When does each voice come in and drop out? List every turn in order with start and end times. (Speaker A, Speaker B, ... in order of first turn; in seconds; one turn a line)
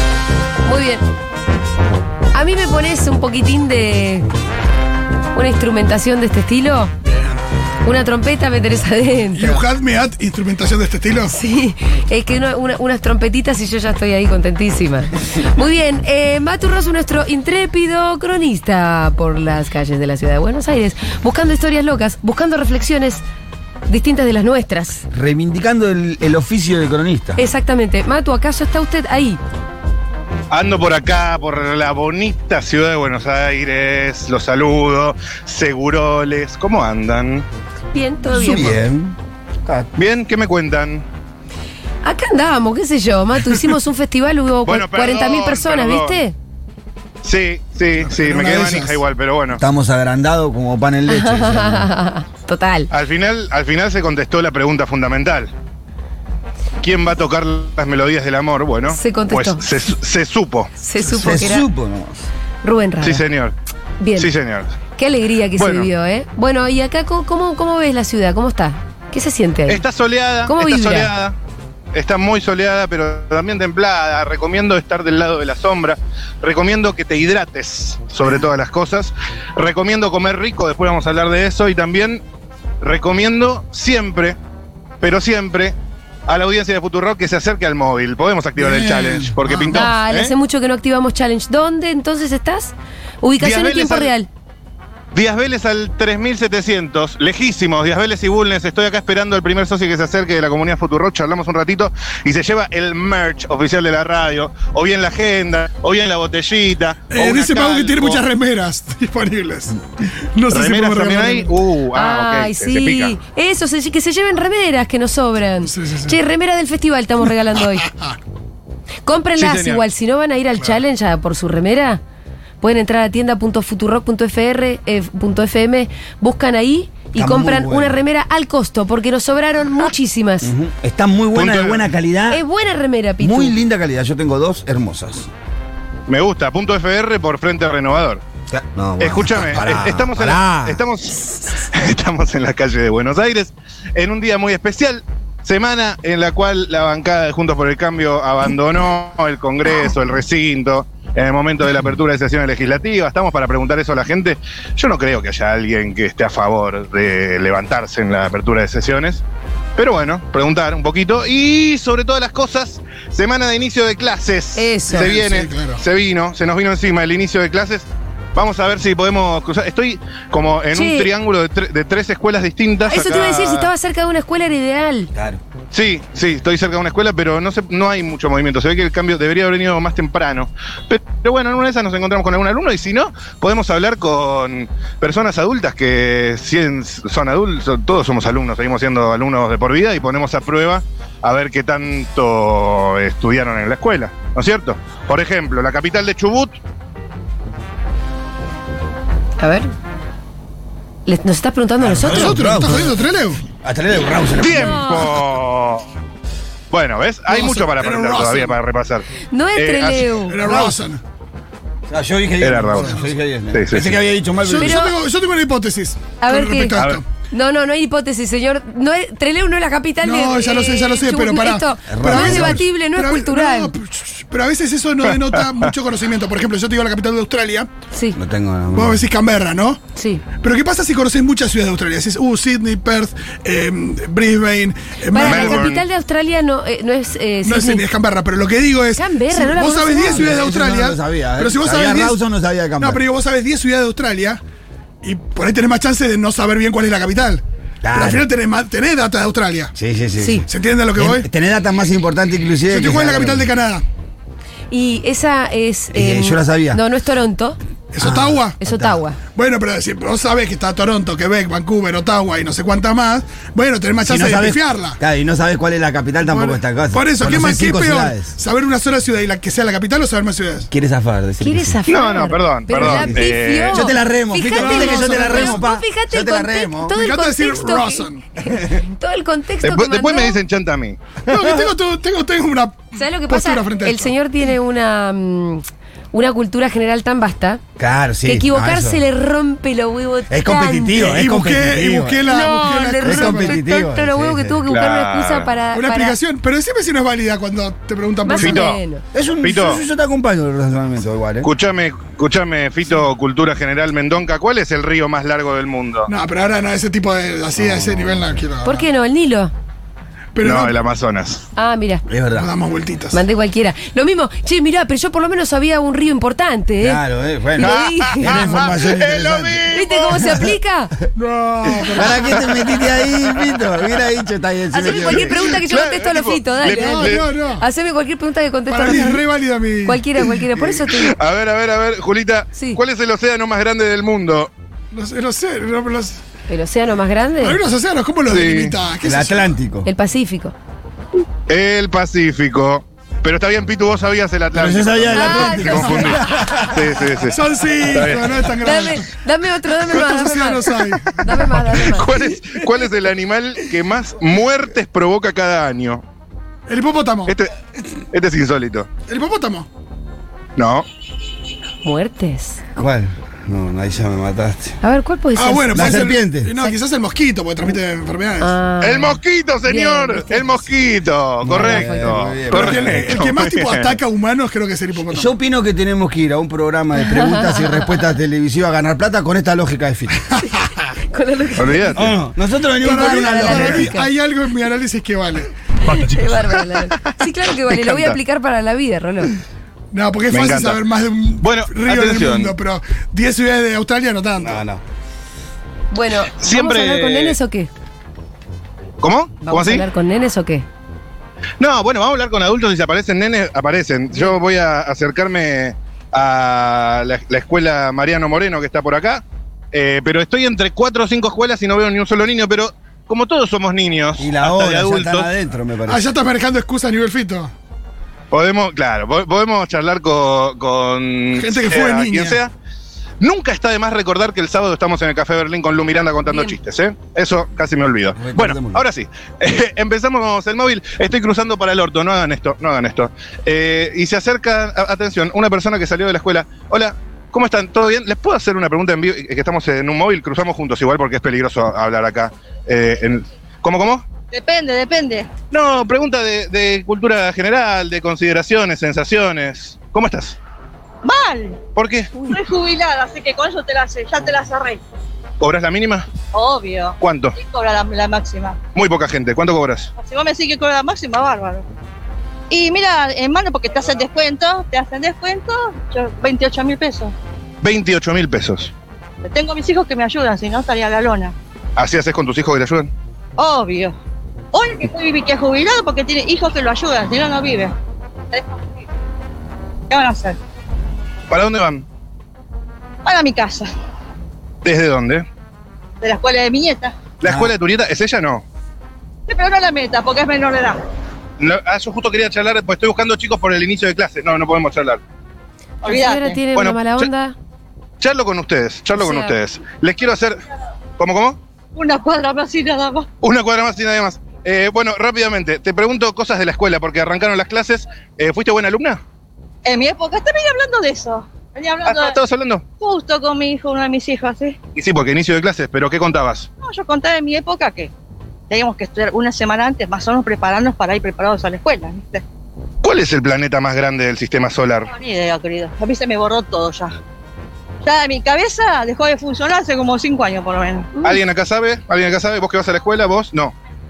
Speaker A: 0.6-1.0
Speaker A: 2.3-4.3
Speaker A: 5.3-6.9
Speaker B: 7.0-7.4
Speaker A: 7.8-9.6
Speaker B: 9.3-11.3
Speaker A: 11.3-23.2
Speaker A: 23.9-25.0
Speaker C: 25.1-27.4
Speaker A: 27.4-29.4
Speaker D: 30.5-37.4
Speaker A: 37.9-38.8
Speaker C: 38.3-39.9
Speaker D: 40.0-41.0
Speaker A: 42.0-46.3
Speaker D: 44.6-46.2
Speaker D: 47.2-49.6
Speaker B: 48.0-49.0
Speaker C: 49.6-51.9
Speaker A: 51.1-52.9
Speaker D: 52.9-55.5
Speaker D: 56.8-60.7
Speaker A: 58.8-59.6
Speaker A: 60.8-61.7
Speaker B: 61.0-61.5
Speaker C: 61.2-62.1
Speaker A: 62.6-63.2
Speaker D: 63.0-63.5
Speaker A: 64.0-64.3
Speaker D: 64.2-64.7
Speaker A: 65.0-69.8
Speaker D: 65.5-65.9
Speaker D: 69.7-71.3
Speaker A: 70.4-71.1
Speaker D: 71.9-82.2
Speaker D: 82.8-84.4
Speaker D: 85.0-85.8
Speaker D: 86.3-90.3
Speaker B: 88.5-89.9
Speaker A: 89.6-94.3
Speaker D: 93.4-94.1
Speaker D: 95.1-108.2
Speaker B: 107.1-111.5
Speaker D: 110.5-113.2
Speaker A: 111.9-117.9
Speaker B: 115.6-116.2
Speaker B: 117.7-118.2
Speaker A: 119.0-122.0
Speaker D: 119.4-119.8
Speaker A: 122.6-130.5
Speaker C: 127.1-128.0
Speaker C: 130.4-132.4
Speaker D: 131.3-131.9
Speaker A: 132.3-133.5
Speaker C: 133.2-135.3
Speaker D: 136.1-138.2
Speaker C: 138.5-140.8
Speaker D: 139.0-159.2
Speaker D: 159.8-173.7
Speaker A: 164.6-165.1
Speaker B: 164.9-165.8
Speaker A: 170.7-171.1
Speaker A: 172.9-175.1
Speaker C: 175.1-175.4
Speaker D: 175.7-196.6
Speaker A: 199.4-199.7
Speaker A: 201.1-202.4
Speaker C: 201.8-202.9
Speaker B: 202.0-203.4
Speaker C: 203.6-204.9
Speaker D: 204.4-205.8
Speaker A: 204.5-205.1
Speaker D: 206.7-210.5
Speaker B: 207.3-208.6
Speaker A: 209.3-210.4
Speaker B: 210.2-211.0
Speaker C: 211.9-214.8
Speaker D: 212.4-212.9
Speaker D: 213.5-213.9
Speaker B: 214.4-217.0
Speaker A: 214.6-214.9
Speaker A: 216.2-216.8
Speaker D: 216.8-217.0
Speaker A: 217.3-223.7
Speaker B: 220.0-227.7
Speaker C: 221.9-222.6
Speaker D: 225.3-225.7
Speaker A: 227.9-228.2
Speaker C: 228.1-229.0
Speaker B: 228.7-229.8
Speaker A: 229.9-230.2
Speaker B: 230.4-235.7
Speaker A: 235.1-237.8
Speaker D: 235.2-235.8
Speaker B: 237.4-242.2
Speaker A: 238.9-240.4
Speaker C: 240.0-243.0
Speaker B: 242.8-244.4
Speaker B: 245.0-249.7
Speaker C: 247.8-248.3
Speaker C: 249.7-253.5
Speaker A: 250.2-250.4
Speaker B: 250.5-251.3
Speaker B: 252.7-253.8
Speaker A: 254.7-257.6
Speaker C: 255.9-256.8
Speaker B: 257.9-258.6
Speaker C: 258.0-259.0
Speaker A: 258.6-259.2
Speaker B: 259.3-265.0
Speaker C: 264.0-268.3
Speaker B: 266.2-270.7
Speaker C: 270.7-271.8
Speaker A: 271.4-280.4
Speaker D: 271.9-273.8
Speaker C: 272.7-276.9
Speaker B: 274.5-275.7
Speaker B: 276.9-278.3
Speaker D: 279.6-281.2
Speaker B: 281.3-284.1
Speaker A: 282.9-287.6
Speaker C: 287.8-289.0
Speaker A: 288.2-290.9
Speaker C: 290.3-292.5
Speaker B: 290.4-293.6
Speaker A: 292.3-296.2
Speaker C: 293.0-294.6
Speaker D: 294.6-295.5
Speaker B: 295.7-298.6
Speaker A: 298.2-299.0
Speaker D: 298.4-298.8
Speaker C: 299.1-301.5
Speaker D: 299.4-299.8
Speaker D: 301.4-306.1
Speaker B: 306.1-308.9
Speaker C: 307.6-308.4
Speaker A: 308.6-309.5
Speaker B: 310.3-310.8
Speaker D: 310.4-311.4
Speaker A: 311.6-312.0
Speaker C: 312.1-312.5
Speaker B: 312.3-313.2
Speaker A: 313.1-317.0
Speaker C: 316.8-319.6
Speaker A: 317.5-318.6
Speaker D: 317.6-320.4
Speaker A: 319.7-320.9
Speaker B: 321.1-322.5
Speaker C: 321.9-325.4
Speaker D: 322.3-323.2
Speaker A: 324.7-329.2
Speaker D: 325.5-327.3
Speaker B: 326.7-327.6
Speaker B: 328.7-330.3
Speaker A: 329.8-331.1
Speaker D: 330.6-334.5
Speaker A: 332.5-332.8
Speaker B: 334.9-336.2
Speaker A: 336.5-337.6
Speaker B: 337.4-339.6
Speaker D: 338.3-338.7
Speaker C: 339.0-339.9
Speaker A: 339.8-340.5
Speaker D: 341.5-348.4
Speaker C: 344.5-346.9
Speaker A: 345.1-346.6
Speaker B: 345.3-346.1
Speaker B: 347.3-349.1
Speaker A: 348.6-352.1
Speaker B: 349.8-351.8
Speaker D: 351.8-356.0
Speaker B: 356.7-357.3
Speaker D: 357.3-357.5
Speaker D: 358.1-358.9
Speaker B: 359.1-359.7
Speaker D: 360.6-360.9
Speaker A: 361.8-362.6
Speaker C: 362.8-364.8
Speaker A: 364.8-366.7
Speaker B: 365.3-368.6
Speaker C: 365.7-366.5
Speaker A: 368.4-370.6
Speaker D: 368.8-374.0
Speaker C: 371.4-373.1
Speaker A: 371.4-372.3
Speaker B: 372.5-375.3
Speaker C: 375.1-380.2
Speaker A: 377.0-377.9
Speaker A: 381.1-382.1
Speaker D: 381.6-382.1
Speaker C: 381.9-383.9
Speaker B: 382.8-385.5
Speaker A: 382.8-384.1
Speaker A: 385.8-389.3
Speaker D: 387.6-388.2
Speaker B: 389.9-394.6
Speaker D: 390.3-390.8
Speaker D: 391.4-392.5
Speaker C: 394.4-394.8
Speaker A: 395.9-397.7
Speaker D: 396.4-397.4
Speaker D: 399.0-399.9
Speaker A: 399.4-400.6
Speaker D: 401.6-415.3
Speaker A: 404.1-404.4
Speaker C: 414.2-416.1
Speaker B: 415.9-417.5
Speaker D: 418.3-422.5
Speaker B: 421.3-422.4
Speaker D: 423.2-444.0
Speaker A: 426.2-426.6
Speaker C: 428.1-428.8
Speaker E: 444.3-445.3
Speaker D: 445.5-450.4
Speaker E: 451.0-451.6
Speaker D: 451.7-452.1
Speaker E: 452.2-454.8
Speaker D: 455.4-456.1
Speaker E: 456.3-458.6
Speaker D: 457.0-457.4
Speaker D: 458.7-459.9
Speaker E: 460.0-461.7
Speaker E: 462.5-467.1
Speaker D: 467.6-468.7
Speaker E: 469.2-471.3
Speaker D: 471.8-472.9
Speaker E: 473.4-473.9
Speaker E: 474.5-477.7
Speaker E: 478.3-478.7
Speaker E: 479.9-480.4
Speaker D: 481.3-481.8
Speaker E: 483.0-483.7
Speaker D: 484.6-485.3
Speaker E: 486.0-487.0
Speaker D: 487.2-488.4
Speaker E: 489.3-490.8
Speaker D: 491.4-495.0
Speaker E: 495.8-496.4
Speaker A: 495.8-497.3
Speaker D: 496.5-497.1
Speaker D: 498.0-500.4
Speaker A: 498.9-499.4
Speaker D: 501.0-501.4
Speaker E: 501.7-503.1
Speaker D: 503.2-509.0
Speaker E: 509.6-512.2
Speaker D: 511.8-512.6
Speaker E: 512.8-514.6
Speaker D: 514.7-516.5
Speaker E: 516.6-517.9
Speaker E: 518.5-522.2
Speaker D: 522.8-524.9
Speaker E: 524.9-527.0
Speaker E: 527.8-530.9
Speaker D: 531.0-533.5